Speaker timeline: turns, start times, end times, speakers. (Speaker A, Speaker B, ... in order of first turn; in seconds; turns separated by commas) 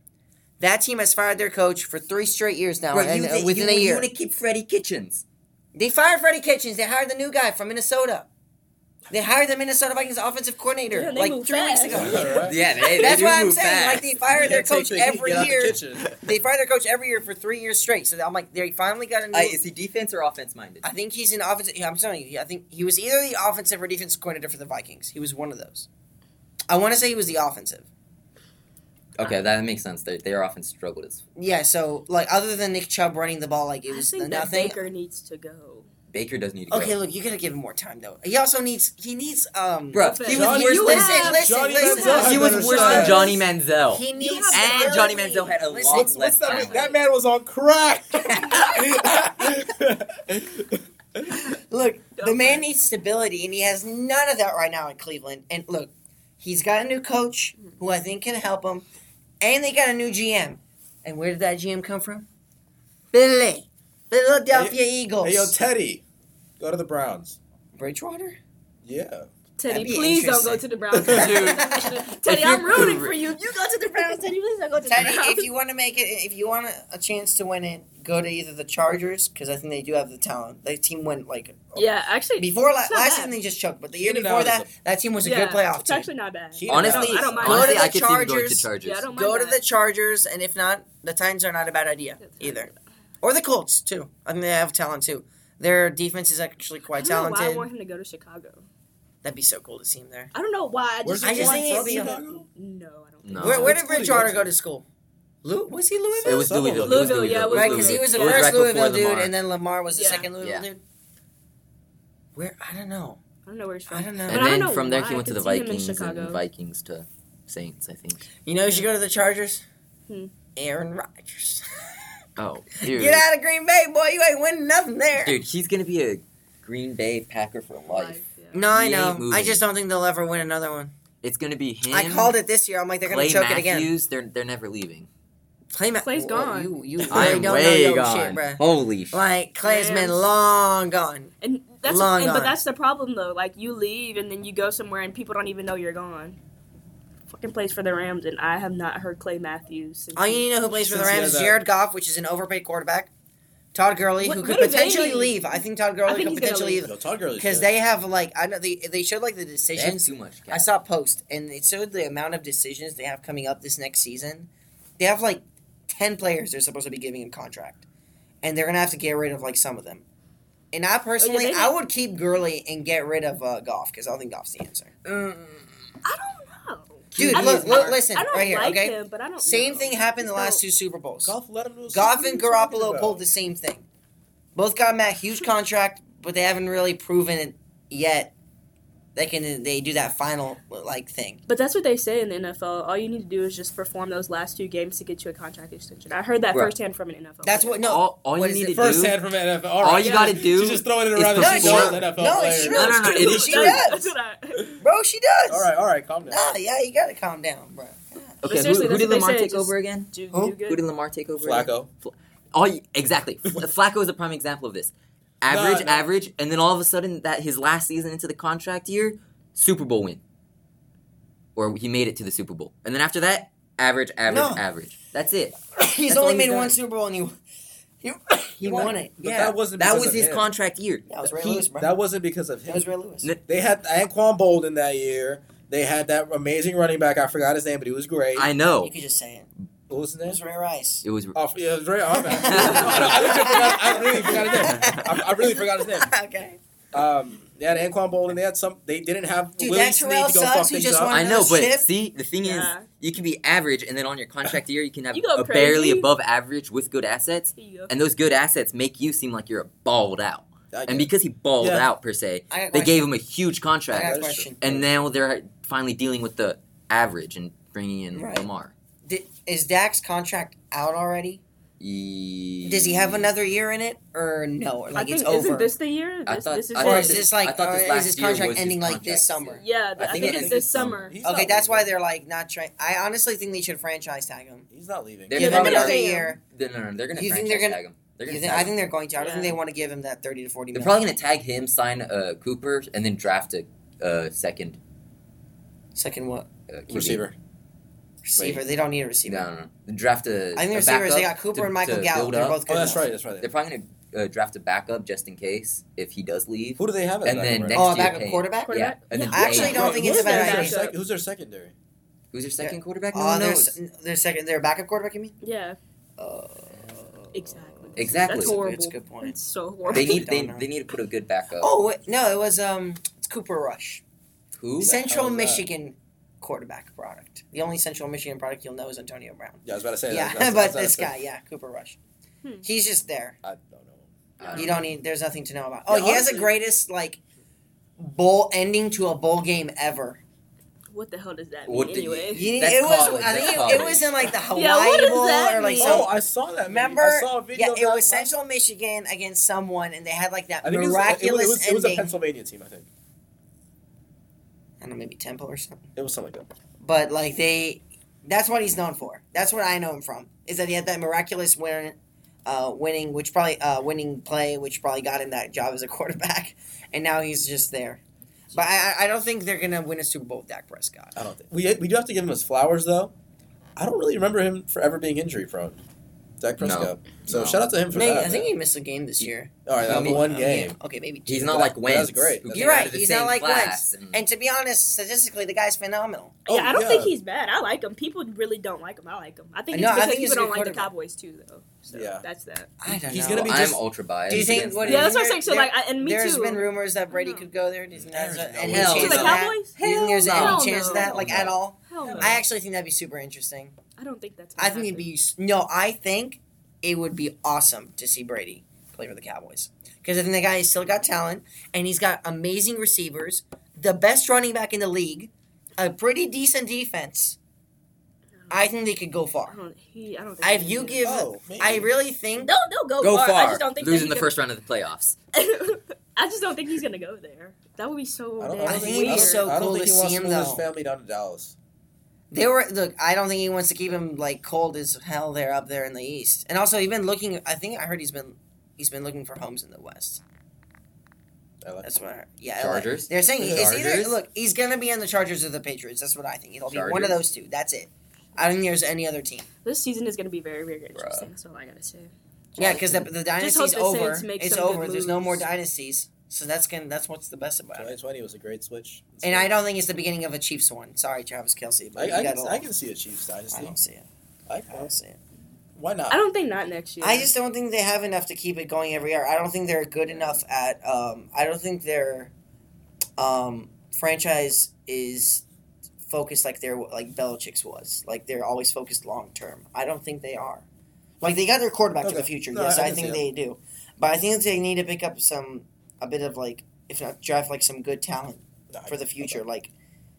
Speaker A: 0.6-4.1, Speaker B: 2.9-5.2, Speaker A: 5.7-8.3, Speaker A: 9.1-19.6, Speaker C: 10.9-13.2, Speaker D: 11.9-12.6, Speaker B: 12.2-14.1, Speaker D: 14.3-16.2, Speaker B: 19.3-20.9, Speaker A: 20.8-25.9, Speaker A: 26.7-27.9, Speaker B: 29.2-31.2, Speaker A: 31.4-34.9, Speaker C: 33.9-35.9, Speaker B: 36.1-37.0, Speaker A: 36.7-46.3, Speaker B: 39.9-41.3, Speaker C: 40.0-43.4, Speaker D: 40.3-43.4, Speaker B: 42.2-46.8, Speaker C: 44.1-45.3, Speaker D: 45.9-51.4, Speaker C: 46.1-47.0, Speaker A: 48.2-49.3, Speaker A: 51.7-58.8, Speaker C: 52.2-52.6, Speaker A: 59.4-62.3, Speaker A: 63.1-65.5, Speaker D: 64.5-66.0, Speaker D: 66.6-67.4, Speaker A: 67.7-68.4, Speaker D: 68.8-69.3, Speaker C: 69.6-75.5, Speaker A: 69.7-71.9, Speaker B: 71.1-73.1, Speaker A: 74.8-81.8, Speaker C: 81.7-83.3, Speaker A: 82.4-86.1, Speaker D: 84.0-84.7, Speaker C: 85.2-87.9, Speaker D: 86.5-87.7, Speaker B: 86.7-89.0, Speaker A: 87.4-92.7, Speaker C: 88.8-89.6, Speaker C: 92.2-92.8, Speaker A: 93.2-97.7, Speaker C: 96.9-98.6, Speaker A: 99.2-100.3, Speaker C: 100.3-103.6, Speaker D: 101.0-102.5, Speaker A: 101.2-102.2, Speaker B: 103.2-103.8, Speaker D: 103.4-104.5, Speaker A: 103.4-104.8, Speaker A: 105.4-106.5, Speaker D: 106.1-107.6, Speaker B: 106.2-109.3, Speaker C: 106.8-108.6, Speaker A: 107.5-110.8, Speaker C: 109.9-110.3, Speaker B: 110.4-110.7, Speaker A: 112.3-113.2, Speaker C: 113.5-116.4, Speaker A: 113.9-114.4, Speaker B: 114.3-118.3, Speaker A: 118.4-119.6, Speaker A: 120.5-121.9, Speaker B: 122.4-123.2, Speaker A: 122.8-125.4, Speaker B: 125.2-128.2, Speaker C: 127.9-128.7, Speaker A: 128.5-130.9, Speaker B: 128.7-129.6, Speaker B: 131.2-132.3, Speaker A: 131.9-133.9, Speaker B: 133.0-135.1, Speaker A: 135.7-141.3, Speaker C: 136.0-136.7, Speaker D: 137.0-137.5, Speaker B: 137.1-139.2, Speaker C: 139.6-140.2, Speaker C: 141.4-146.4, Speaker A: 141.8-142.6, Speaker C: 147.3-150.5, Speaker A: 150.2-153.1, Speaker D: 150.7-151.6, Speaker A: 153.7-167.8, Speaker C: 154.2-156.9, Speaker D: 156.9-157.7, Speaker B: 159.7-160.7, Speaker A: 168.4-170.0, Speaker A: 170.7-175.0, Speaker C: 171.2-171.7, Speaker C: 176.0-180.6, Speaker B: 177.1-178.0, Speaker A: 177.1-181.3, Speaker D: 181.2-183.2, Speaker A: 181.9-183.8, Speaker C: 182.0-182.6, Speaker A: 184.5-188.3, Speaker A: 189.2-191.4, Speaker C: 191.5-197.8, Speaker A: 197.4-198.8, Speaker B: 197.8-199.2, Speaker D: 198.7-203.5, Speaker B: 199.8-202.0, Speaker C: 200.0-200.5, Speaker A: 201.3-204.1, Speaker C: 202.6-204.8, Speaker B: 202.7-203.8, Speaker A: 204.8-205.7, Speaker D: 205.5-206.4, Speaker A: 206.2-208.3, Speaker B: 208.4-220.2, Speaker C: 208.4-210.8, Speaker D: 211.4-211.9, Speaker D: 215.5-216.1, Speaker B: 221.5-226.8, Speaker A: 224.3-224.6, Speaker A: 225.7-227.4, Speaker A: 228.0-229.6, Speaker B: 228.6-228.9, Speaker D: 228.7-230.5, Speaker B: 229.8-231.7, Speaker A: 231.1-231.9, Speaker D: 231.4-232.9, Speaker A: 232.7-233.3, Speaker D: 233.4-238.5, Speaker B: 238.3-238.9, Speaker A: 238.8-239.5, Speaker D: 239.9-240.4, Speaker A: 240.2-241.0, Speaker B: 241.0-241.4, Speaker D: 241.3-246.1, Speaker A: 242.2-246.6, Speaker B: 242.4-243.5, Speaker D: 246.9-251.2, Speaker A: 249.6-251.9, Speaker B: 251.1-268.7, Speaker C: 252.4-252.9, Speaker C: 255.1-256.1, Speaker C: 257.5-257.9, Speaker D: 260.7-261.9, Speaker A: 262.5-263.1, Speaker A: 263.9-264.6, Speaker D: 264.0-264.8, Speaker A: 268.1-268.5, Speaker A: 269.1-271.4, Speaker B: 271.8-273.3, Speaker A: 272.6-275.7, Speaker C: 274.9-277.2, Speaker B: 276.2-279.4, Speaker A: 276.8-279.6, Speaker C: 279.4-281.2, Speaker B: 280.0-281.1, Speaker D: 280.1-281.9, Speaker A: 281.2-284.7, Speaker D: 284.7-285.4, Speaker B: 285.3-288.7, Speaker A: 285.3-286.4, Speaker C: 285.4-286.4, Speaker A: 287.1-291.1, Speaker C: 289.2-289.5, Speaker B: 290.7-294.8, Speaker A: 295.9-296.5, Speaker B: 296.7-297.2, Speaker D: 296.9-297.4, Speaker A: 298.2-299.5, Speaker B: 299.3-310.0, Speaker A: 300.6-303.0, Speaker D: 302.7-303.5, Speaker D: 306.8-307.8, Speaker A: 307.7-310.8, Speaker C: 308.7-310.9, Speaker D: 309.6-311.7, Speaker B: 312.3-313.8, Speaker A: 312.6-315.3, Speaker C: 315.4-315.8, Speaker A: 316.2-320.7, Speaker C: 317.3-320.3, Speaker B: 318.0-318.5, Speaker B: 319.9-321.7, Speaker A: 321.6-324.0, Speaker B: 324.6-325.0, Speaker A: 324.8-332.0, Speaker D: 324.9-325.7, Speaker D: 329.6-331.1, Speaker A: 332.6-333.4, Speaker D: 333.4-334.8, Speaker B: 334.4-334.9, Speaker A: 334.5-337.2, Speaker D: 335.9-336.5, Speaker A: 338.0-340.2, Speaker C: 340.9-342.6, Speaker B: 341.7-344.1, Speaker A: 342.3-346.1, Speaker C: 343.4-343.8, Speaker C: 344.5-346.1, Speaker D: 345.8-348.3, Speaker A: 346.6-352.1, Speaker D: 350.6-352.9, Speaker A: 354.8-355.9, Speaker D: 355.9-356.5, Speaker A: 356.8-368.0, Speaker A: 368.5-371.1, Speaker D: 371.1-373.1, Speaker D: 373.8-375.8, Speaker D: 376.4-378.5, Speaker B: 376.6-377.6, Speaker A: 377.9-381.7, Speaker D: 379.6-380.8, Speaker B: 379.8-380.3, Speaker B: 381.3-384.2, Speaker D: 381.5-382.9, Speaker A: 382.5-386.3, Speaker C: 386.4-392.7, Speaker D: 386.5-387.1, Speaker A: 389.7-390.9, Speaker D: 391.9-392.2, Speaker A: 392.8-403.8, Speaker D: 392.9-393.8, Speaker B: 393.1-395.2, Speaker D: 394.3-394.6, Speaker C: 394.8-397.5, Speaker D: 397.9-399.2, Speaker B: 398.6-399.5, Speaker C: 398.8-402.4, Speaker B: 400.3-401.1, Speaker D: 401.2-401.6, Speaker D: 402.1-402.4, Speaker C: 404.0-405.0, Speaker A: 404.6-417.4, Speaker A: 418.5-419.5, Speaker C: 419.5-421.0, Speaker A: 420.4-422.5, Speaker D: 421.0-421.9, Speaker C: 422.4-424.3, Speaker B: 423.0-425.1, Speaker C: 425.3-429.4, Speaker D: 428.4-431.5, Speaker A: 428.6-430.6, Speaker A: 432.3-440.2, Speaker D: 441.6-441.9, Speaker A: 441.8-449.4, Speaker B: 442.6-444.2, Speaker D: 443.4-443.7, Speaker B: 446.7-447.2, Speaker C: 449.6-455.4, Speaker B: 450.9-451.3, Speaker A: 452.6-457.9, Speaker B: 452.6-453.0, Speaker D: 457.7-459.5, Speaker A: 459.2-462.6, Speaker D: 461.9-463.8, Speaker A: 463.5-464.0, Speaker D: 464.5-464.9, Speaker A: 464.7-465.2, Speaker D: 465.8-466.2, Speaker C: 466.1-467.3, Speaker A: 467.0-472.3, Speaker A: 473.2-475.4, Speaker A: 476.1-480.6, Speaker A: 481.2-489.7, Speaker D: 482.0-483.2, Speaker D: 488.7-489.4